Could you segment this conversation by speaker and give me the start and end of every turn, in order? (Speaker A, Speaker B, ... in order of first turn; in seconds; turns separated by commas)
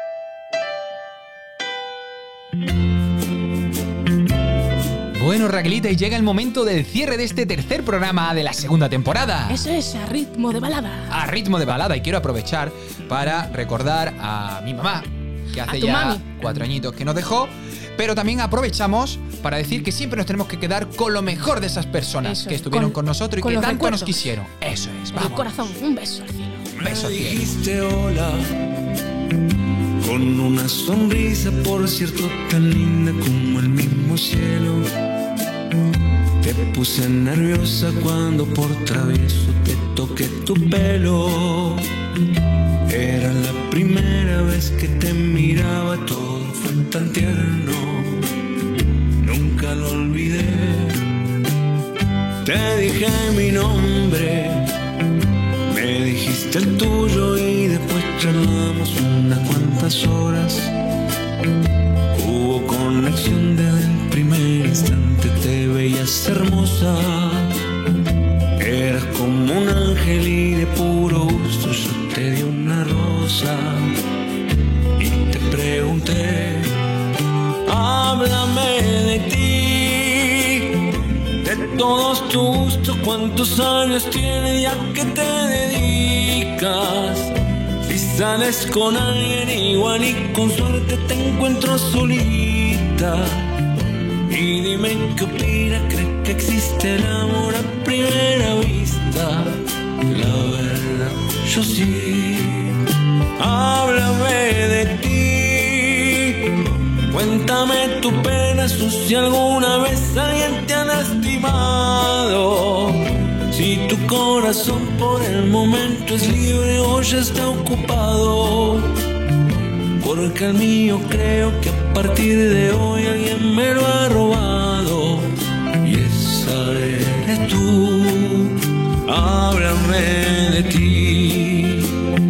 Speaker A: 5.1-9.6, Speaker B: 9.5-11.1, Speaker A: 11.1-25.7, Speaker B: 15.7-16.2, Speaker B: 22.2-24.3, Speaker B: 25.1-26.6, Speaker A: 26.8-27.5, Speaker C: 26.8-28.5, Speaker C: 30.0-34.9, Speaker C: 36.4-41.8, Speaker C: 42.9-48.2, Speaker C: 49.2-51.0, Speaker C: 52.4-54.7, Speaker C: 55.7-60.7, Speaker C: 62.1-67.5, Speaker C: 68.6-73.9, Speaker C: 75.0-76.7, Speaker C: 77.7-80.7, Speaker C: 81.4-87.3, Speaker C: 87.8-93.5, Speaker C: 94.3-99.5, Speaker C: 100.1-102.8, Speaker C: 103.4-106.5, Speaker C: 107.1-118.9, Speaker C: 120.0-125.3, Speaker C: 125.8-128.5, Speaker C: 129.1-131.8